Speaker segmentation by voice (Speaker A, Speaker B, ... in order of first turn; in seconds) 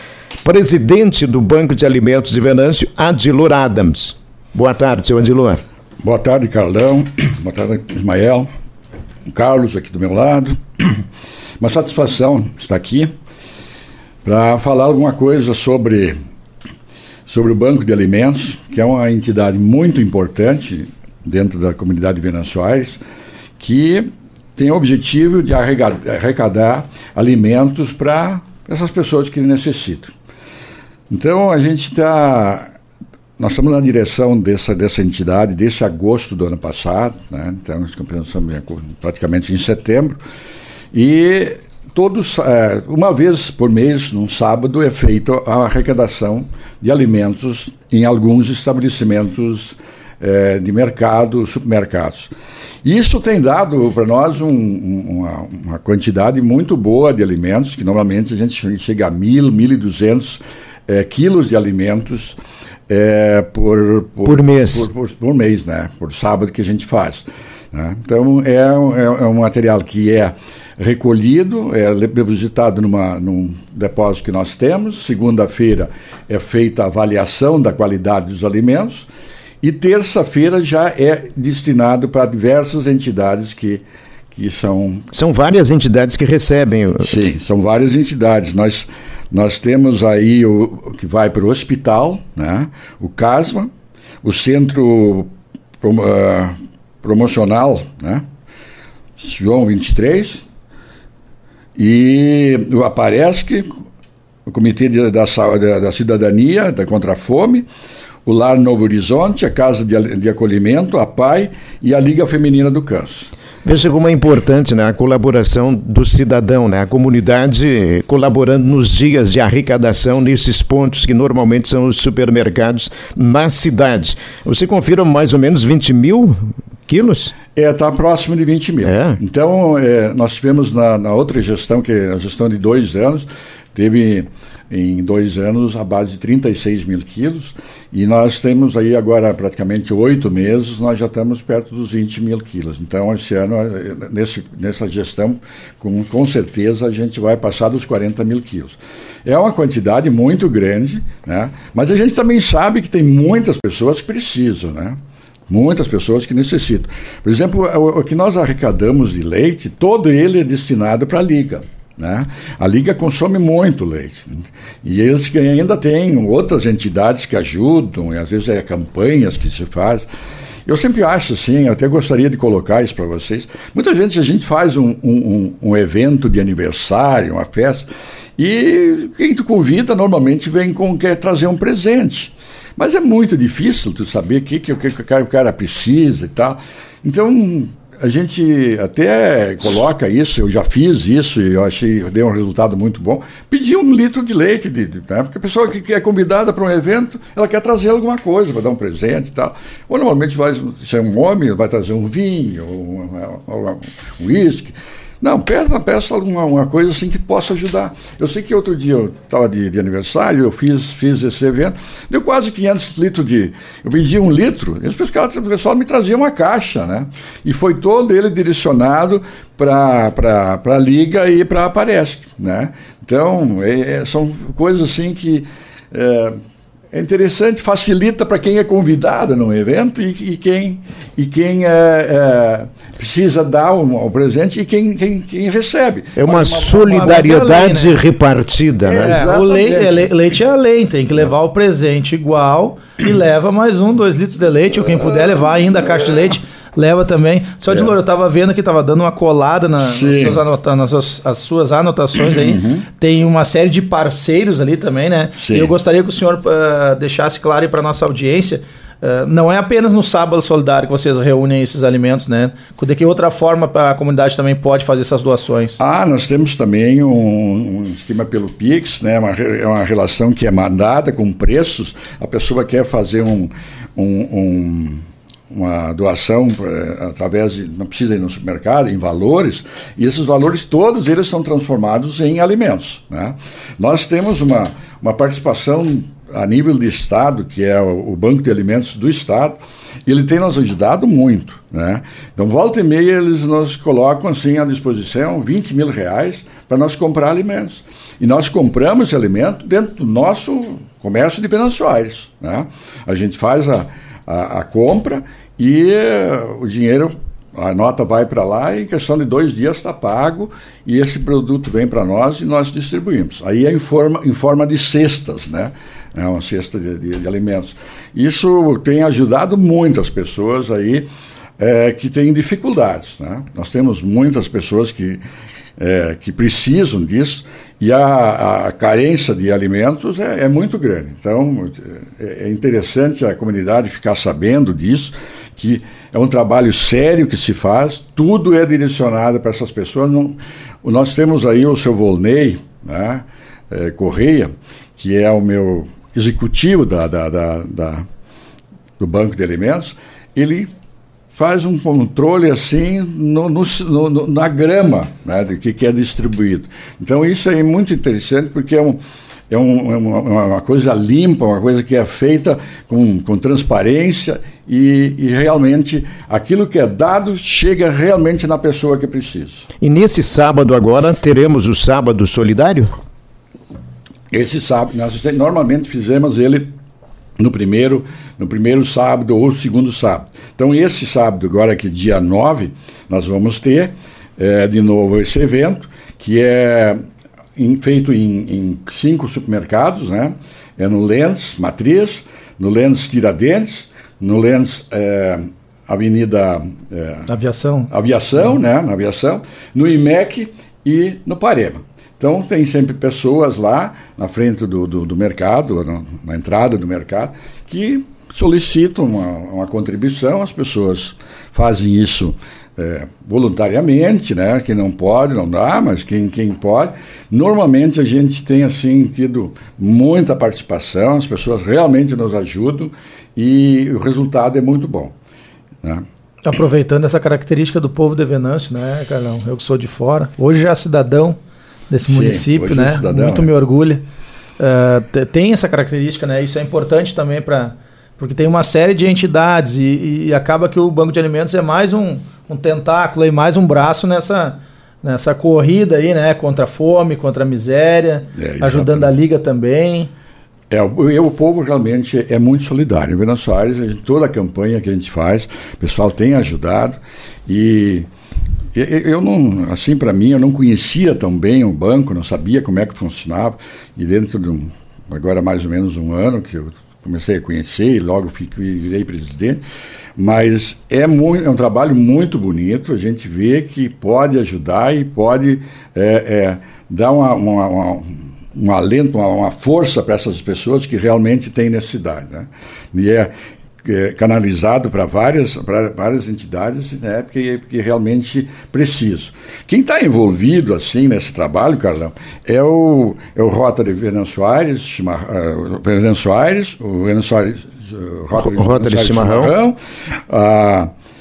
Speaker A: 0.4-5.6, 64.2-64.9, 85.1-87.1, 113.6-127.3, 128.8-129.2, 236.2-239.2, 369.8-372.9, 498.4-499.5
Speaker B: 6.0-8.5, 9.3-11.0, 11.6-13.1, 14.2-16.1, 17.3-23.0, 23.6-30.1, 31.1-32.7, 33.4-40.2, 40.9-52.3, 52.8-79.1, 79.6-85.1, 87.0-93.7, 94.2-95.3, 95.8-98.2, 99.2-100.5, 101.8-103.7, 104.5-107.7, 108.3-113.3, 127.5-170.1, 170.7-226.4, 226.9-237.3, 238.8-240.1, 244.7-246.2, 247.7-247.9, 249.8-250.4, 252.3-252.9, 255.4-255.7, 265.8-321.1, 321.6-325.2, 325.8-348.0, 349.0-350.7, 351.4-369.7, 374.3-376.7, 377.4-387.0, 387.6-397.3, 397.9-425.1, 432.1-433.5, 448.4-449.1, 450.7-458.1, 458.7-469.6, 470.2-483.3, 483.8-500.9
Speaker C: 236.7-238.0, 239.0-265.8, 397.3-397.9, 426.4-431.4, 431.9-434.0, 434.6-450.1